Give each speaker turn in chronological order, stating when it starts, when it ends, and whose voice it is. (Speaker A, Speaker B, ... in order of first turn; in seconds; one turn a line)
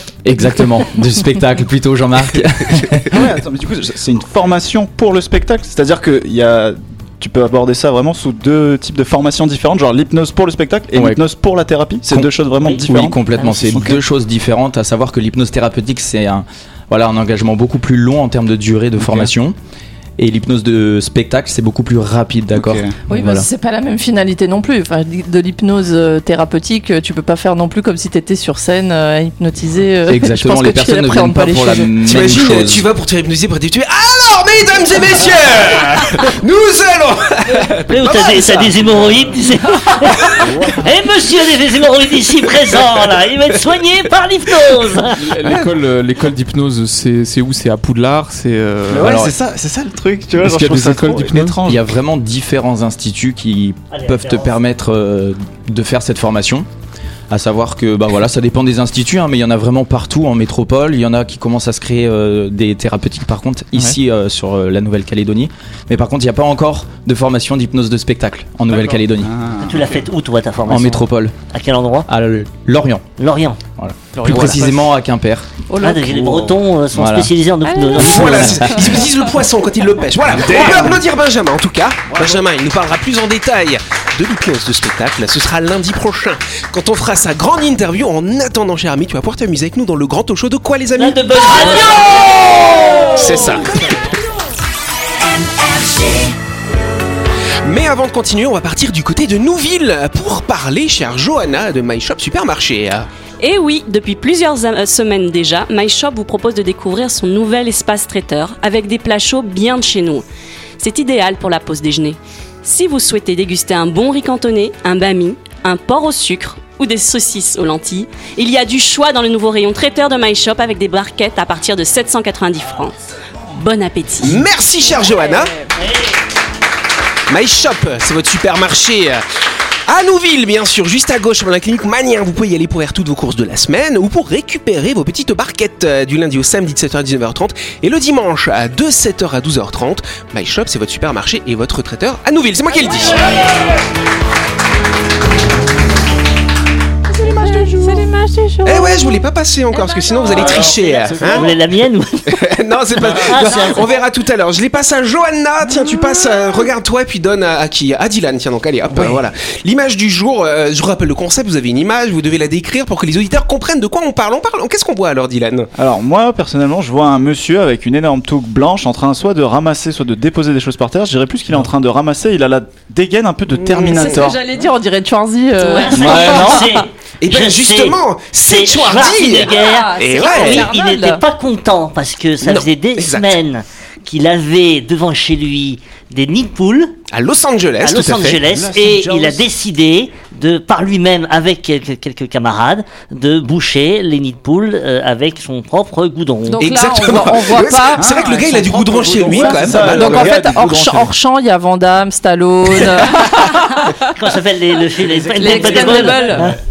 Speaker A: 0.2-3.1
Speaker B: 3.1-13.2
Speaker A: 10.9-11.2
Speaker A: 12.1-19.6
Speaker C: 13.4-13.7
Speaker B: 13.7-14.0
Speaker B: 19.0-19.3
Speaker A: 20.2-23.5
Speaker B: 22.6-23.0
Speaker D: 23.1-31.9
Speaker A: 30.1-32.9
Speaker E: 32.0-38.8
Speaker C: 37.9-45.2
Speaker B: 40.4-40.8
Speaker F: 45.2-49.2
Speaker E: 45.4-45.7
Speaker B: 48.9-51.8
Speaker A: 48.9-49.3
Speaker F: 50.4-51.6
Speaker A: 51.6-56.7
Speaker C: 53.9-54.6
Speaker A: 57.3-69.3
Speaker F: 68.7-69.0
Speaker B: 69.2-69.8
Speaker C: 69.6-72.1
Speaker F: 69.7-70.0
Speaker A: 70.7-71.3
Speaker A: 72.1-73.0
Speaker C: 73.2-73.6
Speaker A: 73.8-75.5
Speaker F: 74.2-74.6
Speaker E: 74.3-74.6
Speaker C: 75.8-79.0
Speaker A: 76.9-77.3
Speaker D: 77.6-79.1
Speaker E: 78.0-92.4
Speaker B: 82.1-82.4
Speaker C: 91.0-93.6
Speaker E: 93.0-94.1
Speaker E: 97.6-103.1
Speaker G: 103.4-110.2
Speaker G: 110.8-123.0
Speaker G: 123.5-124.4
Speaker E: 124.2-125.5
Speaker D: 124.9-125.7
Speaker E: 127.3-129.2
Speaker E: 129.9-143.3
Speaker D: 147.1-150.5
Speaker E: 148.6-151.5
Speaker B: 150.5-151.4
Speaker C: 151.2-152.4
Speaker E: 152.3-165.7
Speaker C: 153.1-153.9
Speaker B: 158.9-159.2
Speaker B: 165.8-174.4
Speaker E: 173.5-174.2
Speaker D: 173.9-176.9
Speaker C: 175.6-187.0
Speaker B: 176.0-176.6
Speaker E: 177.2-180.7
Speaker D: 179.4-181.2
Speaker E: 182.4-183.4
Speaker E: 187.1-188.4
Speaker C: 187.8-196.7
Speaker B: 188.4-189.4
Speaker D: 196.5-198.3
Speaker E: 196.6-200.4
Speaker B: 198.0-201.1
Speaker C: 198.9-199.9
Speaker D: 199.2-204.1
Speaker C: 203.8-206.6
Speaker B: 205.1-206.0
Speaker D: 205.3-206.5